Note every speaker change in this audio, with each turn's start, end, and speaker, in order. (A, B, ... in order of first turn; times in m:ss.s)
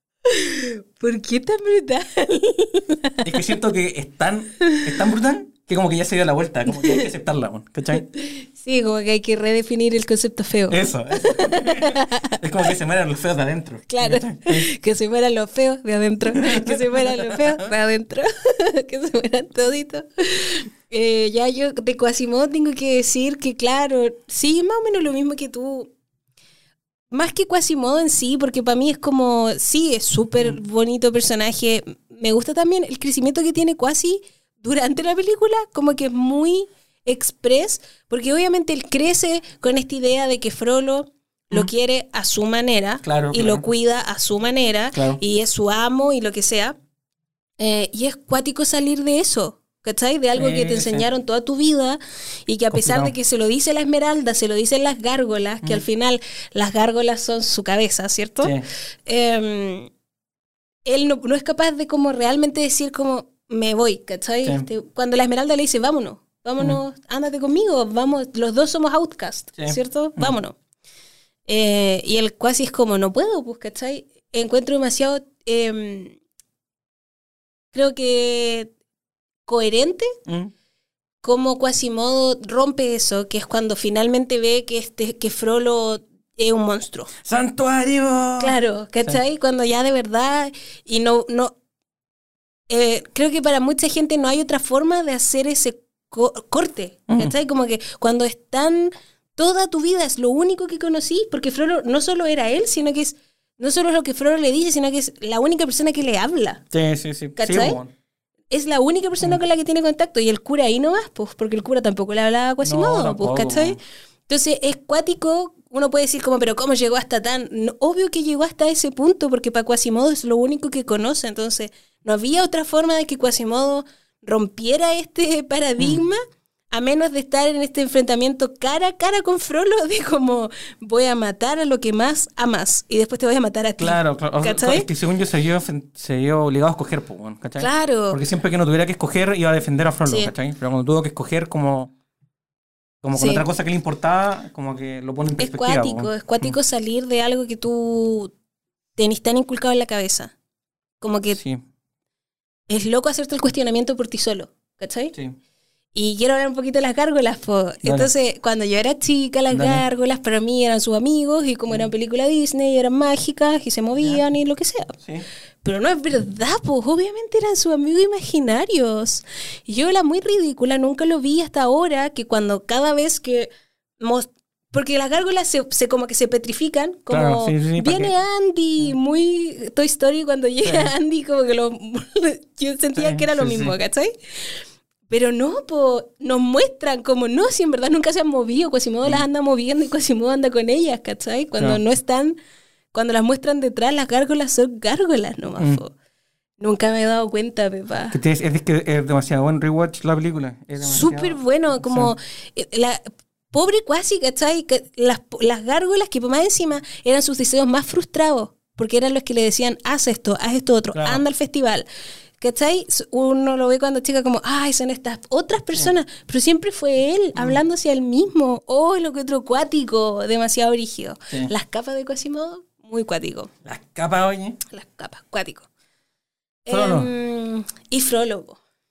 0:00.2-0:03.4 A
0:03.2-0:08.1 B
0:04.6-0:04.9 A
0:06.7-0:07.1 A
0:07.9-0:12.4 A
0:10.7-0:14.7 B
0:13.9-0:25.9 A
0:16.2-0:17.7 B
0:27.1-0:46.8 A
0:43.0-0:43.6 B
0:44.9-0:45.2 B
0:47.6-0:59.9 A
0:50.3-0:51.1 B
0:52.7-0:53.1 B
0:58.4-0:58.6 B
1:00.8-1:10.6 A
1:09.6-1:10.4 B
1:11.5-1:16.2 A
1:17.7-1:18.7 A
1:19.4-1:20.1 A
1:20.2-1:20.5 B
1:21.2-1:27.1 A
1:27.2-1:29.2 B
1:28.4-1:31.5 A
1:32.7-1:46.6 A
1:37.1-1:37.3 B
1:46.7-1:47.9 B
1:47.4-1:47.8 A
1:48.5-2:06.2 A
1:52.6-1:53.8 B
2:06.7-2:14.9 A
2:13.8-2:21.9 B
2:17.6-2:18.2 A
2:20.0-2:20.3 A
2:23.0-2:26.6 B
2:23.1-2:23.4 A
2:25.4-2:28.3 A
2:29.0-2:30.3 A
2:31.0-2:31.4 A
2:31.3-2:31.6 B
2:32.7-2:35.1 A
2:35.9-2:44.9 A
2:37.8-2:38.1 B
2:39.5-2:39.8 B
2:45.0-2:45.2 B
2:45.6-3:04.5 A
2:57.1-2:58.1 B
3:00.6-3:00.9 B
3:03.0-3:03.8 B
3:05.1-3:12.4 A
3:11.6-3:11.8 B
3:12.9-3:15.9 A
3:16.6-3:18.2 A
3:18.1-3:22.1 B
3:20.8-3:31.8 A
3:30.9-3:31.2 B
3:32.4-3:43.5 A
3:37.4-3:37.6 B
3:43.6-3:44.6 B
3:44.7-3:45.7 A
3:46.6-3:48.6 A
3:46.7-3:47.1 B